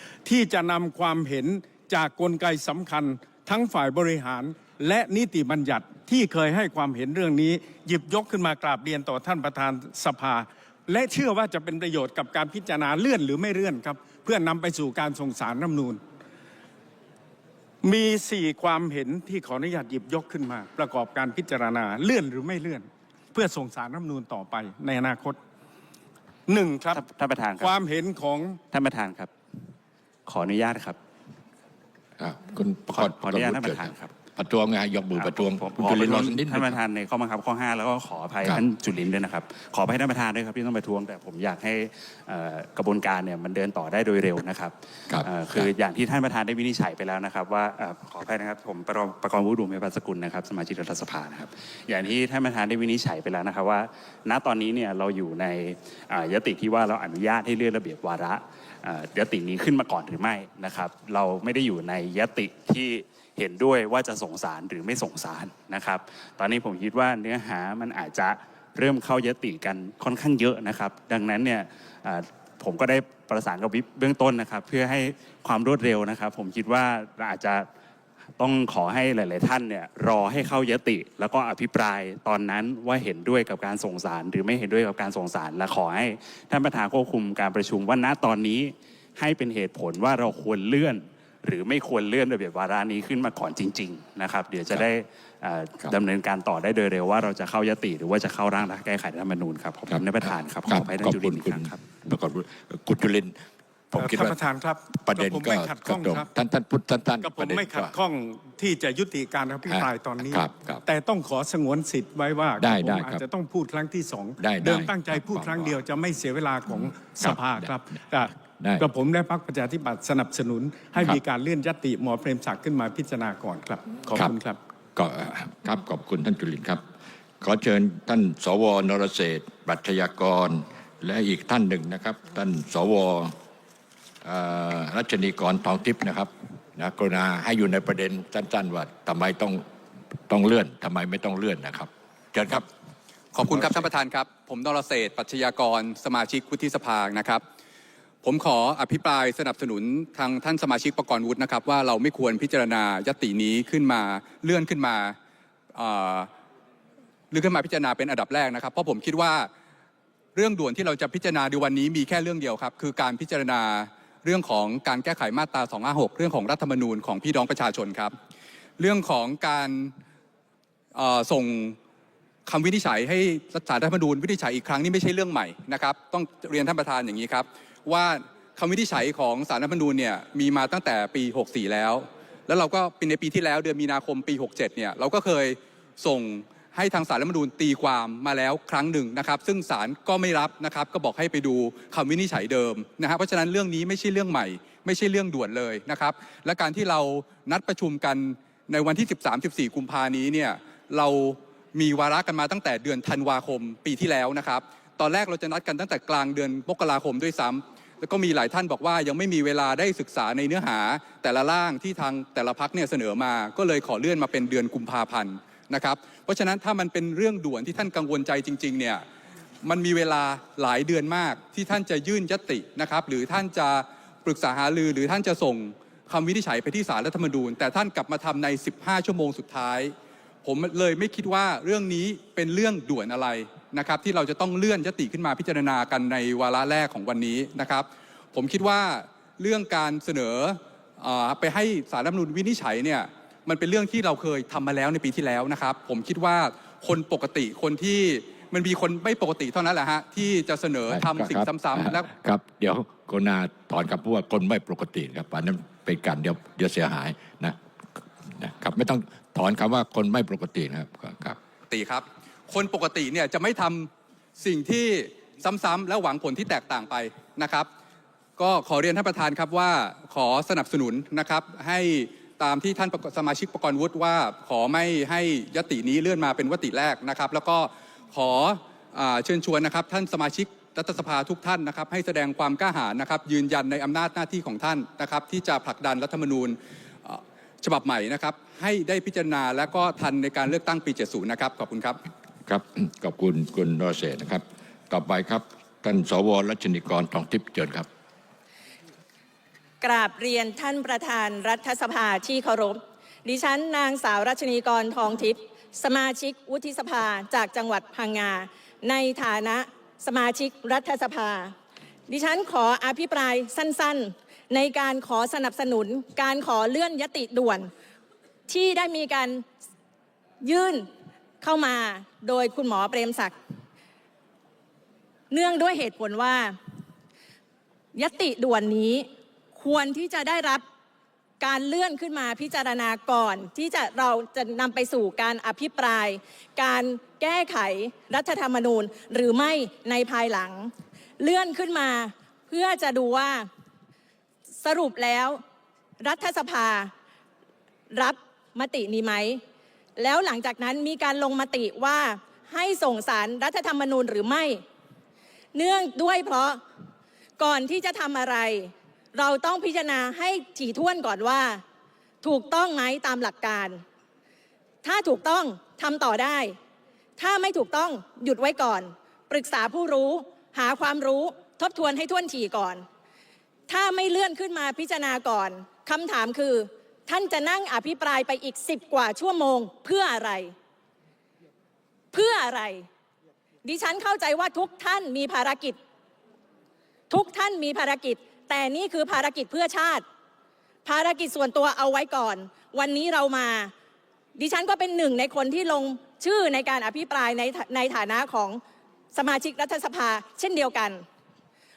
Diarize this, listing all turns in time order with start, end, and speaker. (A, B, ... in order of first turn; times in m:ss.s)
0:00.2-0:16.0 A
0:17.8-0:25.4 A
0:26.5-0:27.0 A
0:26.9-0:27.7 B
0:27.6-0:28.6 A
0:28.7-0:29.3 B
0:30.3-0:31.0 B
0:32.2-0:36.8 C
0:32.9-0:34.1 B
0:35.2-1:17.7 B
0:45.1-0:45.7 C
1:18.4-1:41.8 B
1:40.6-1:43.4 C
1:43.9-1:44.4 C
1:44.0-1:46.3 A
1:44.9-1:47.9 C
1:47.2-2:04.6 A
1:49.7-1:50.8 C
1:52.6-1:53.2 C
1:54.4-1:55.7 C
1:56.8-1:57.6 C
1:58.6-1:58.8 C
2:05.0-2:06.8 C
2:07.4-2:13.3 C
2:14.2-2:19.6 C
2:20.3-2:22.7 C
2:23.3-2:27.4 D
2:23.5-2:23.8 C
2:28.2-2:35.2 D
2:35.7-2:36.3 D
2:37.3-2:39.5 D
2:40.3-2:48.1 D
2:48.8-2:49.9 D
2:50.9-2:51.8 D
2:52.4-3:39.0 D
3:39.6-4:12.1 D
4:10.9-4:17.6 C
4:18.4-4:21.4 C
4:21.7-4:27.7 D
4:28.4-4:52.0 D
4:52.5-4:57.9 C
4:59.8-5:11.5 E
5:12.1-5:17.7 E
5:18.5-5:19.4 E
5:20.4-5:20.9 E
5:21.4-5:23.4 E
5:25.3-5:26.6 E
5:27.9-5:30.6 E
5:31.4-5:43.5 E
5:44.6-5:45.4 E
5:46.0-5:46.9 E
5:47.9-5:49.4 E
5:50.0-5:54.6 E
5:55.5-5:56.6 E
5:57.4-6:01.6 E
6:02.2-6:03.8 E
6:04.8-6:06.6 E
6:07.2-6:12.8 E
6:13.7-6:20.5 E
6:22.1-6:22.9 E
6:23.6-6:25.8 E
6:27.1-6:30.0 E
6:30.8-6:33.7 E
6:34.4-6:38.6 E
6:39.1-6:41.0 E